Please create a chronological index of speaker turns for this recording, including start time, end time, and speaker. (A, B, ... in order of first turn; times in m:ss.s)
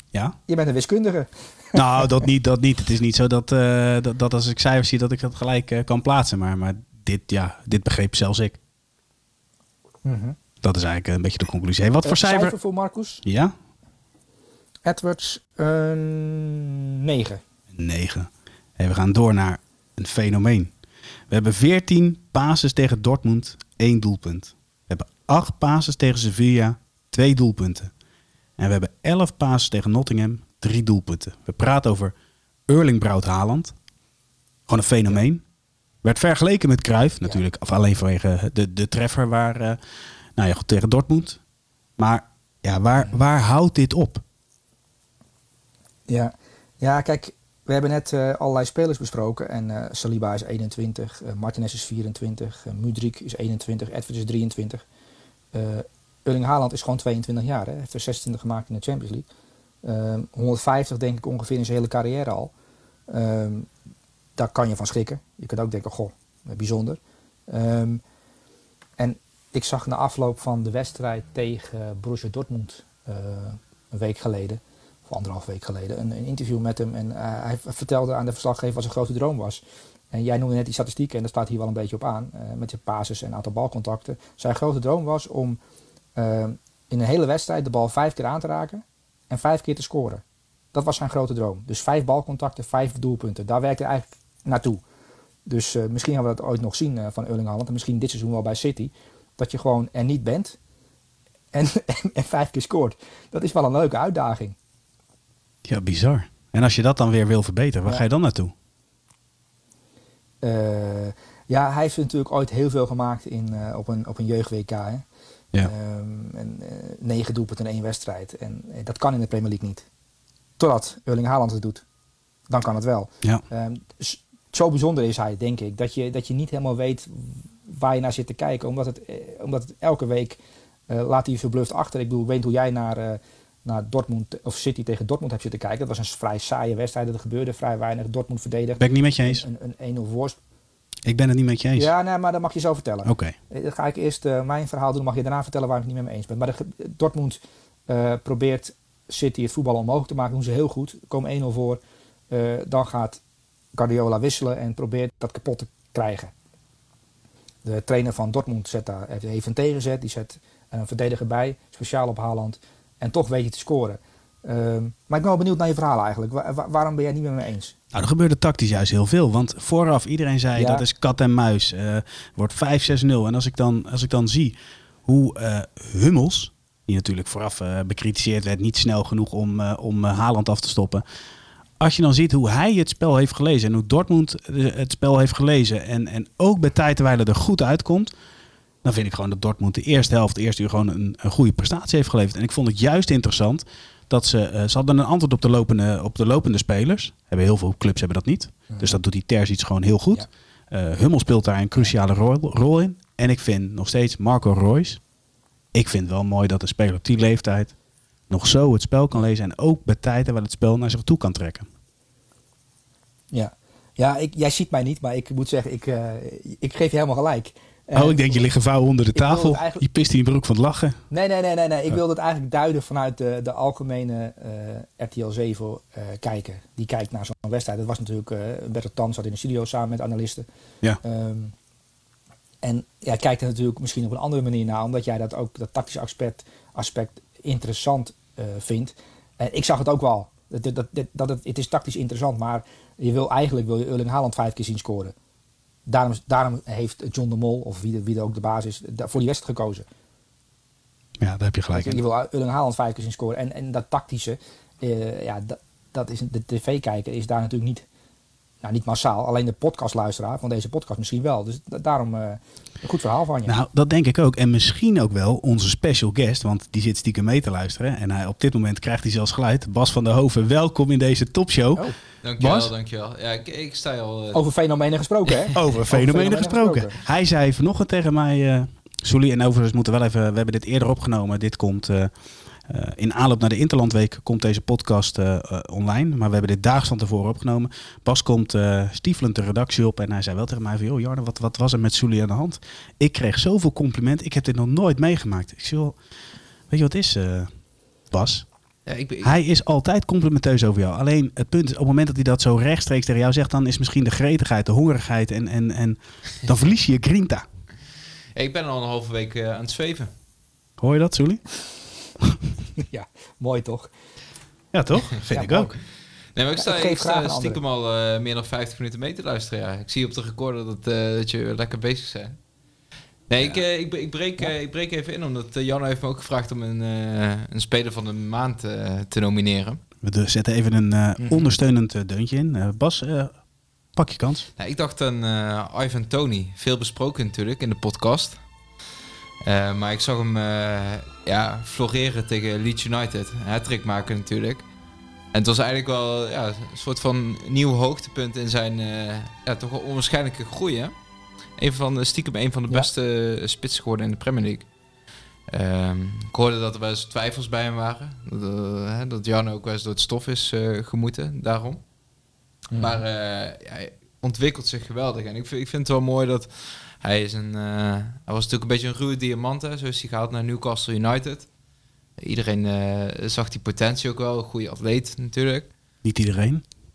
0:00.5-0:02.1 A
0:01.7-0:08.6 B
0:10.0-0:10.4 A
0:10.6-0:12.5 B
0:12.0-0:13.2 A
0:13.2-0:13.5 B
0:14.8-0:17.4 A
0:17.7-0:20.7 B
0:21.3-0:27.9 B
0:28.6-0:32.1 B
0:32.7-0:33.7 B
0:34.7-0:35.4 B
0:36.0-0:39.8 B
0:40.4-0:41.4 B
0:42.0-0:44.2 B
0:46.1-0:54.8 A
0:55.5-0:59.2 A
0:59.8-1:02.5 A
1:03.1-1:03.7 A
1:04.4-1:08.0 A
1:09.0-1:19.6 A
1:20.1-1:25.6 A
1:26.2-1:30.2 A
1:30.7-1:34.8 A
1:35.5-1:40.6 A
1:41.5-1:44.6 A
1:45.6-1:48.5 B
1:50.4-1:55.0 A
1:55.6-1:59.8 A
2:00.6-2:01.8 A
2:02.5-2:20.4 A
2:18.8-2:19.4 B
2:21.0-2:21.9 B
2:21.8-2:31.8 A
2:23.0-2:23.4 B
2:32.3-2:33.2 A
2:33.7-2:36.3 A
2:37.6-2:47.8 A
2:47.9-3:01.0 B
2:50.6-2:50.8 A
3:01.8-3:08.1 B
3:08.8-3:25.0 B
3:18.7-3:19.0 A
3:25.7-3:27.7 B
3:28.3-3:31.7 B
3:33.3-3:38.4 A
3:37.9-3:41.0 B
3:39.1-3:39.8 A
3:41.1-3:50.4 A
3:51.0-3:51.5 A
3:52.6-4:05.1 A
4:05.9-4:09.8 A
4:11.2-4:12.0 B
4:11.7-4:17.8 A
4:18.6-4:23.5 A
4:23.5-4:31.9 B
4:32.2-4:34.4 C
4:32.4-4:32.7 B
4:34.3-4:37.0 A
4:35.5-4:42.1 B
4:42.6-4:56.0 B
4:56.7-4:57.5 B
4:58.1-4:58.5 B
4:58.8-4:59.3 C
4:59.2-5:07.4 B
5:08.3-5:10.1 C
5:10.8-5:11.6 B
5:12.8-5:13.9 A
5:14.7-5:15.8 B
5:15.3-5:15.8 A
5:16.3-5:22.4 C
5:16.6-5:17.6 A
5:23.3-5:29.8 C
5:30.0-5:33.4 B
5:33.9-5:34.5 B
5:34.6-5:38.4 C
5:39.4-5:44.7 C
5:45.3-5:50.9 C
5:51.6-5:54.7 C
5:55.5-6:01.8 C
6:02.7-6:03.0 A
6:02.8-6:11.5 C
6:12.2-6:15.7 C
6:16.0-6:16.6 B